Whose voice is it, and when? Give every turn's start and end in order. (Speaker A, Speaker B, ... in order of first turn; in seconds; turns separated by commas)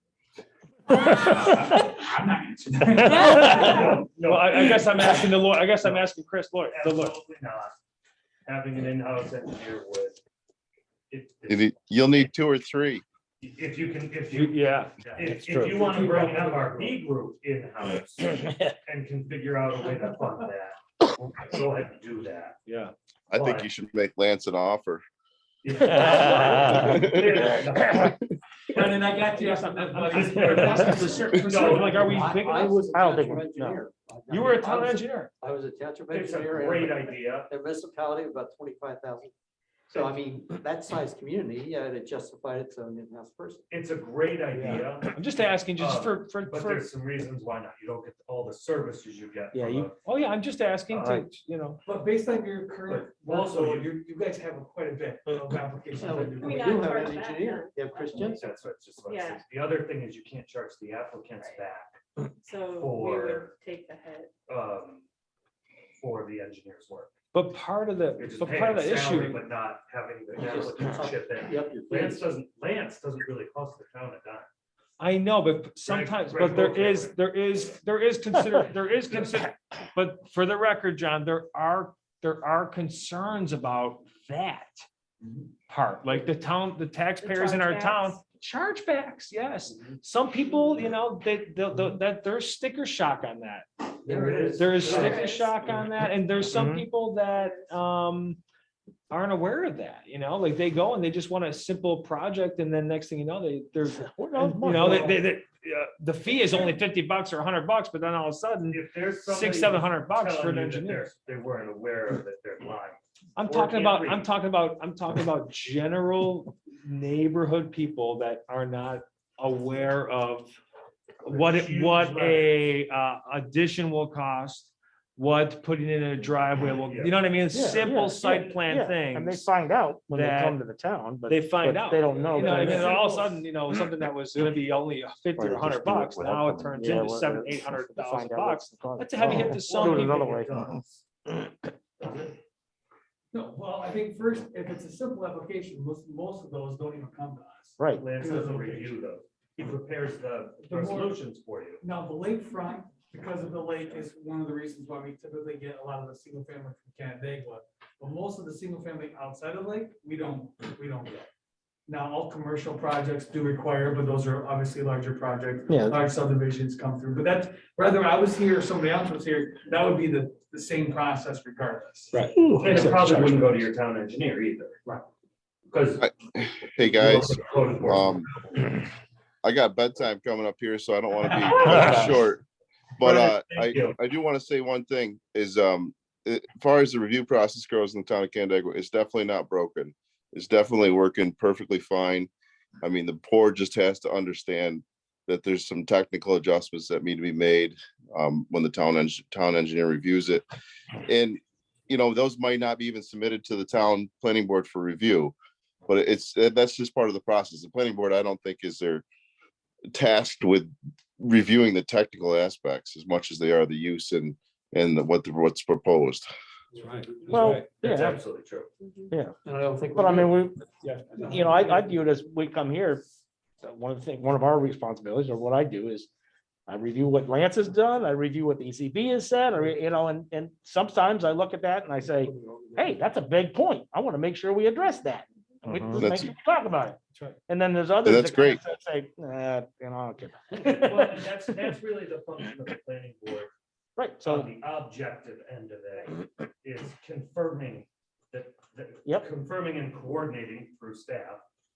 Speaker A: 1.0-3.8, Speaker B: 3.0-7.2, Speaker C: 3.3-3.8, Speaker D: 3.6-5.0, Speaker D: 6.7-7.8, Speaker D: 8.5-10.2, Speaker D: 11.1-12.3, Speaker E: 11.5-13.0, Speaker D: 13.4-22.6, Speaker B: 14.3-16.9, Speaker B: 22.7-22.9, Speaker E: 23.3-25.0, Speaker D: 23.3-23.7, Speaker D: 25.6-28.1, Speaker E: 26.9-28.1, Speaker A: 28.7-32.5, Speaker B: 29.8-33.2, Speaker D: 30.1-31.9, Speaker F: 32.0-39.3, Speaker G: 32.9-33.8, Speaker B: 34.3-35.3, Speaker D: 36.1-37.5, Speaker F: 39.9-43.6, Speaker D: 43.7-50.0, Speaker G: 44.6-44.8, Speaker B: 44.6-46.9, Speaker G: 49.5-49.9, Speaker B: 50.0-51.8, Speaker D: 50.9-51.3, Speaker A: 51.9-56.9, Speaker D: 52.9-53.9, Speaker F: 56.0-58.4, Speaker C: 56.3-58.5, Speaker D: 58.2-62.0, Speaker C: 59.0-59.4, Speaker C: 62.4-64.3, Speaker D: 62.6-63.5, Speaker D: 64.5-65.0, Speaker D: 66.0-67.2, Speaker B: 67.3-69.4, Speaker D: 68.2-74.5, Speaker F: 70.5-72.2, Speaker B: 75.0-84.8, Speaker D: 75.9-77.2, Speaker B: 85.7-98.4, Speaker C: 87.2-88.2, Speaker D: 94.0-95.3, Speaker F: 94.1-95.0, Speaker C: 95.0-95.6, Speaker G: 96.5-96.9, Speaker C: 97.3-97.7, Speaker B: 99.1-111.1, Speaker G: 103.9-105.2, Speaker D: 108.7-114.3, Speaker B: 113.4-120.5, Speaker B: 121.2-129.5, Speaker D: 121.3-122.7, Speaker D: 126.8-127.2, Speaker G: 127.5-133.0, Speaker B: 130.1-130.6, Speaker B: 131.3-140.3, Speaker A: 132.7-133.3, Speaker G: 135.4-136.1, Speaker G: 136.7-140.7, Speaker D: 139.2-141.1, Speaker D: 142.0-142.4, Speaker A: 143.3-148.9, Speaker G: 147.8-148.1, Speaker D: 147.9-151.8, Speaker A: 150.7-151.1, Speaker A: 151.8-161.3, Speaker A: 161.9-172.9, Speaker G: 165.7-166.0, Speaker B: 172.1-173.7, Speaker G: 172.3-172.9, Speaker D: 172.6-174.8, Speaker D: 175.7-176.1, Speaker E: 176.0-178.3, Speaker D: 176.8-178.6, Speaker E: 179.4-182.4, Speaker B: 181.6-182.1, Speaker G: 181.7-182.0, Speaker E: 183.0-192.3, Speaker D: 183.0-184.0, Speaker E: 192.8-200.4, Speaker E: 201.1-205.3, Speaker E: 205.9-209.1, Speaker E: 209.9-216.3, Speaker B: 216.8-217.7, Speaker G: 217.3-218.2, Speaker D: 217.8-218.7, Speaker C: 218.8-219.1, Speaker G: 219.1-219.4, Speaker F: 219.4-220.3, Speaker G: 219.9-220.6, Speaker B: 220.8-221.8, Speaker G: 221.2-223.0, Speaker G: 223.6-226.1, Speaker G: 226.7-241.2, Speaker B: 235.7-236.1, Speaker E: 235.9-236.3, Speaker E: 238.0-238.6, Speaker D: 240.6-243.5, Speaker G: 244.0-244.5, Speaker D: 244.2-251.4